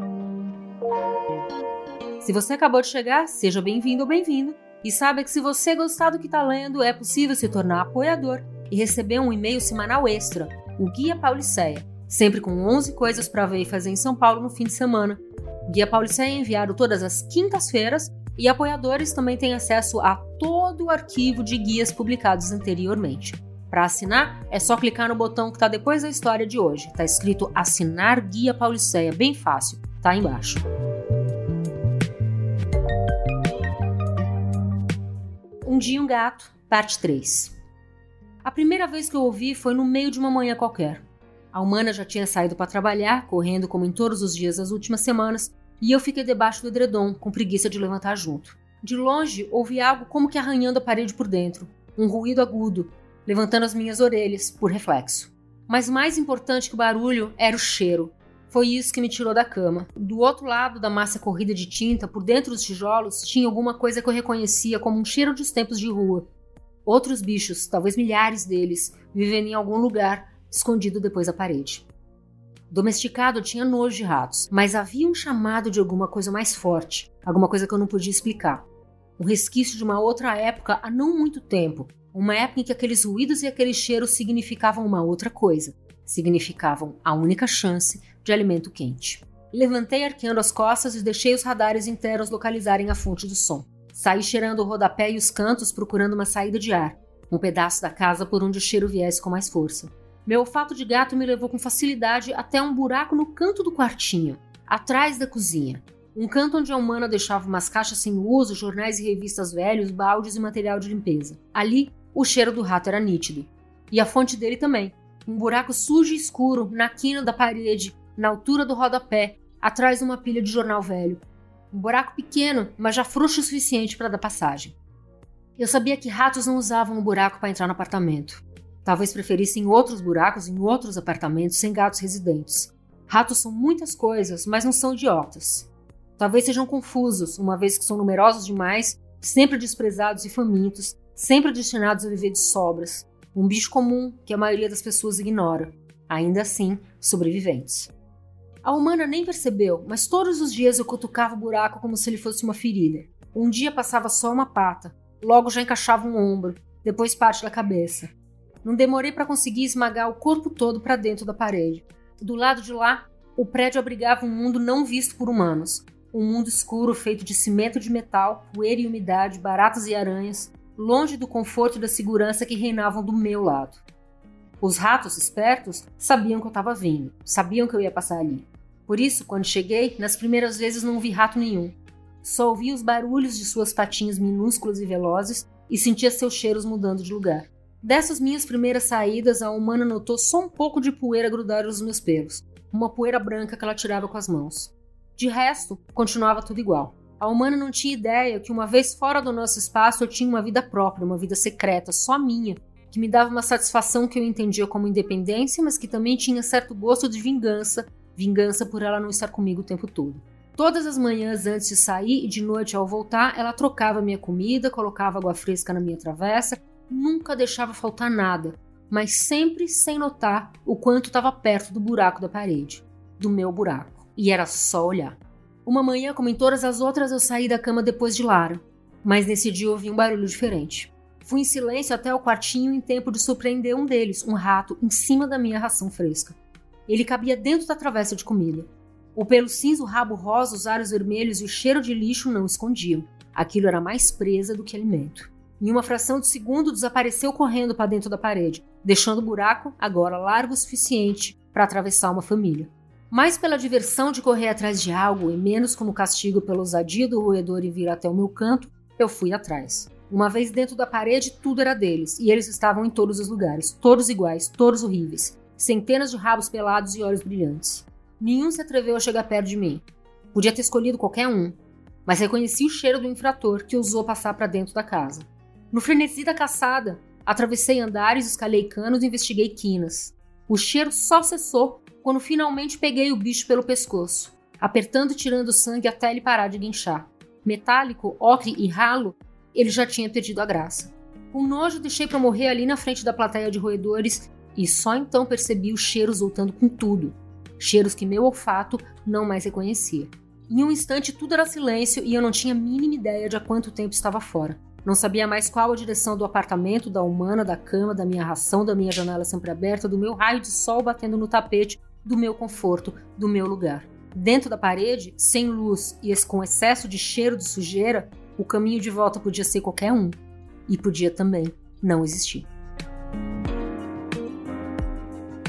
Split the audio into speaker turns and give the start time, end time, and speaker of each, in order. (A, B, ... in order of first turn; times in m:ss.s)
0:02.2-0:30.6 A
0:35.6-0:37.5 A
0:38.4-1:06.3 A
1:06.8-1:11.8 A
1:12.7-1:18.6 A
1:19.2-2:04.8 A
2:05.6-2:27.9 A
2:28.6-2:38.1 A
2:38.6-2:53.8 A
2:54.6-3:56.4 A
3:56.9-5:22.5 A